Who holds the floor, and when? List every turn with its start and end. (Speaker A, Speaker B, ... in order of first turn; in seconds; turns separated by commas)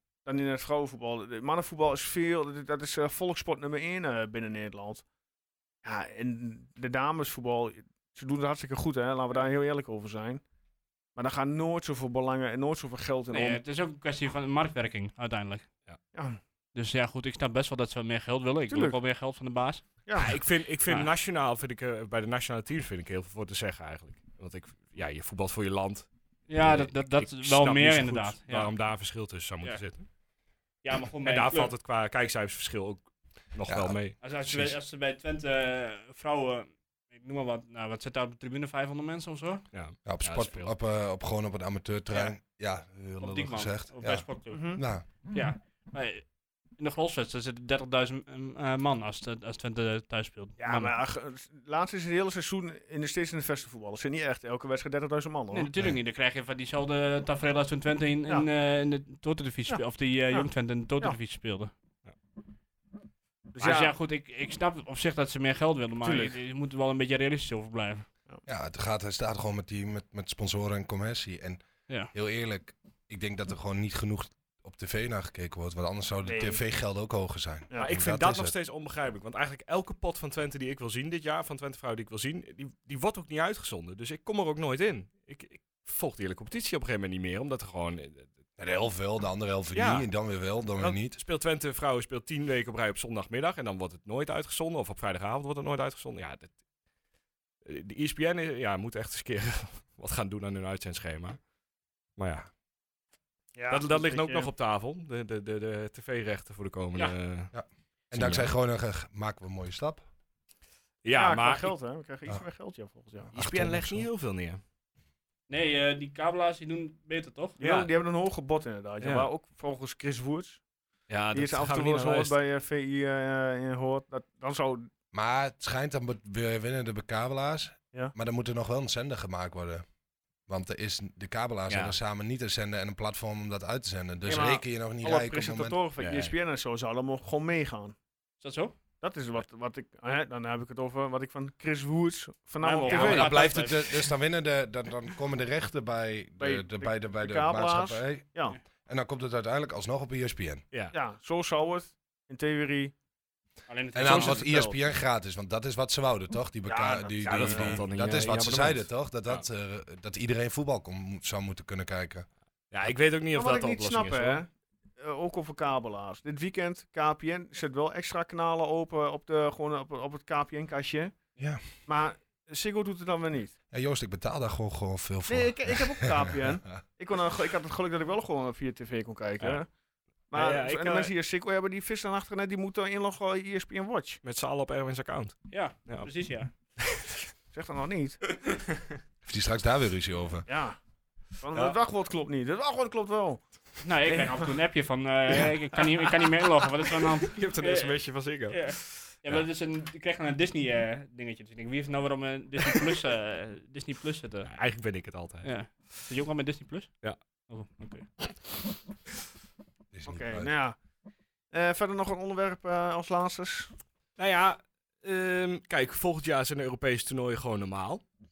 Speaker A: 0.2-5.0, Speaker A: 5.8-10.4, Speaker A: 11.2-13.6, Speaker B: 13.3-15.7, Speaker A: 16.1-16.4, Speaker B: 16.7-20.0, Speaker A: 18.7-19.0, Speaker A: 20.1-20.4, Speaker C: 20.2-30.1, Speaker B: 26.5-28.7, Speaker B: 30.8-31.7, Speaker C: 31.2-34.7, Speaker D: 33.7-34.0, Speaker B: 34.2-39.6, Speaker C: 39.7-40.7, Speaker D: 40.0-45.0, Speaker B: 43.2-44.7, Speaker A: 44.5-44.8, Speaker B: 45.3-50.9, Speaker A: 50.6-55.7, Speaker B: 55.5-61.7, Speaker A: 59.7-61.1, Speaker A: 63.5-63.9, Speaker B: 63.6-68.1, Speaker A: 66.0-66.3, Speaker D: 68.5-78.5, Speaker A: 76.2-76.6, Speaker C: 77.8-88.3, Speaker D: 88.6-91.2, Speaker C: 89.7-90.1, Speaker C: 90.8-96.5, Speaker C: 97.6-101.4, Speaker C: 102.2-102.5, Speaker A: 103.5-104.5, Speaker C: 103.7-107.5, Speaker D: 107.5-110.0, Speaker C: 108.1-108.5, Speaker C: 111.0-111.7, Speaker A: 111.1-113.3, Speaker D: 113.3-114.0, Speaker C: 113.3-114.6, Speaker B: 115.5-117.6, Speaker C: 117.6-117.9, Speaker A: 117.6-120.6, Speaker C: 119.0-119.3, Speaker C: 121.1-122.3, Speaker A: 121.3-124.9, Speaker D: 125.1-129.8, Speaker D: 130.5-135.8, Speaker C: 131.7-131.9, Speaker A: 134.2-137.9, Speaker C: 136.0-136.3, Speaker B: 138.4-138.8, Speaker A: 139.0-143.6, Speaker B: 142.6-144.1, Speaker C: 142.9-143.2, Speaker D: 142.9-148.2, Speaker A: 146.4-148.6, Speaker D: 148.8-150.6, Speaker A: 150.9-152.9, Speaker B: 153.7-154.7, Speaker D: 153.9-162.3, Speaker A: 154.0-154.8, Speaker A: 156.7-157.8, Speaker C: 157.2-159.4, Speaker C: 162.7-164.4, Speaker A: 163.3-171.2, Speaker D: 171.4-171.6, Speaker A: 171.8-173.5, Speaker D: 173.7-176.8, Speaker A: 175.3-179.7, Speaker A: 180.3-184.2, Speaker C: 180.3-181.1, Speaker C: 184.2-186.1, Speaker B: 185.5-186.5, Speaker C: 186.8-187.1, Speaker A: 187.5-188.2, Speaker D: 189.2-190.4, Speaker A: 190.4-190.8, Speaker A: 191.4-193.4, Speaker B: 193.8-197.9, Speaker A: 194.1-194.5, Speaker C: 196.9-199.4, Speaker B: 198.5-204.5, Speaker C: 204.5-206.1, Speaker B: 205.4-208.1, Speaker D: 209.9-210.5, Speaker A: 210.1-210.8, Speaker A: 211.5-213.7, Speaker C: 214.2-218.0